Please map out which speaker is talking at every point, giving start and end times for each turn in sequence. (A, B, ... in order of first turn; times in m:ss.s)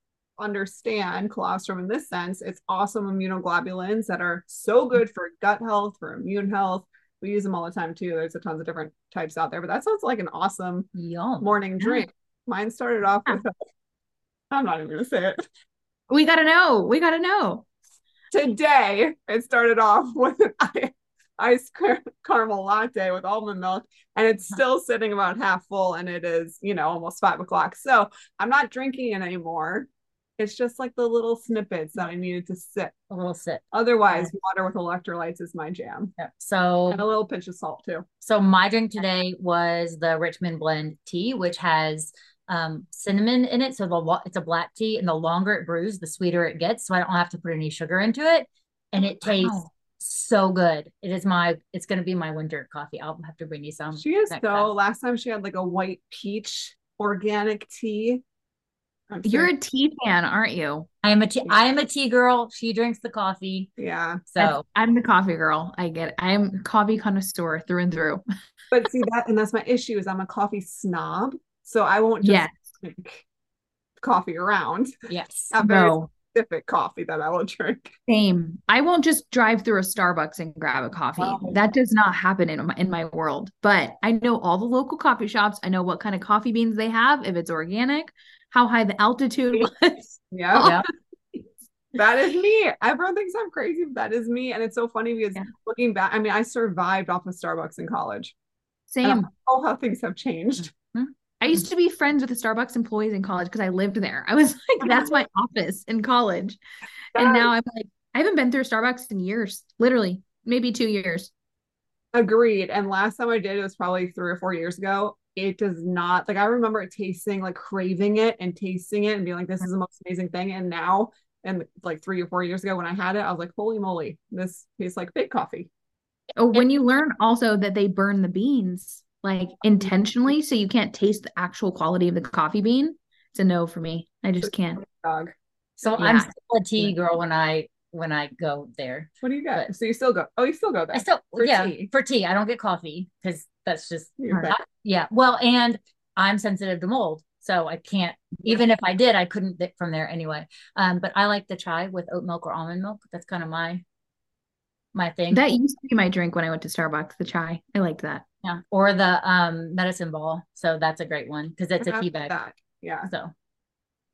0:00.4-0:10.9 A
0:10.9-0:11.4 B
0:11.4-0:13.6 A
0:14.5-0:15.4 A
0:16.1-0:17.6 C
0:18.3-0:33.0 A
0:33.1-0:34.3 B
0:33.7-0:36.1 A
0:36.2-0:37.0 B
0:36.9-0:38.0 A
0:38.2-0:54.7 B
0:49.2-0:49.7 C
0:54.0-0:58.2 A
0:59.1-0:59.5 A
0:59.2-1:00.9 C
1:01.0-1:03.7 B
1:03.8-1:04.2 A
1:04.3-1:04.6 B
1:04.4-1:08.2 C
1:08.7-1:13.2 A
1:12.2-1:12.7 C
1:14.0-1:14.9 A
1:15.1-1:15.5 B
1:15.5-1:17.9 A
1:15.6-1:16.1 C
1:18.1-1:30.8 C
1:21.2-1:21.6 A
1:30.3-1:30.7 A
1:30.6-1:30.8 B
1:31.9-1:38.3 A
1:38.9-1:39.3 C
1:39.0-1:40.7 A
1:40.9-1:46.6 C
1:44.8-1:45.1 A
1:47.1-1:47.5 A
1:47.1-1:51.3 C
1:52.1-2:05.7 A
2:06.4-2:14.8 C
2:14.4-2:15.3 A
2:15.8-2:19.7 B
2:16.0-2:16.9 C
2:19.2-2:21.9 A
2:20.9-2:33.8 B
2:24.2-2:24.5 A
2:34.9-2:35.4 B
2:35.3-2:38.2 C
2:38.4-2:42.3 B
2:41.8-2:43.1 A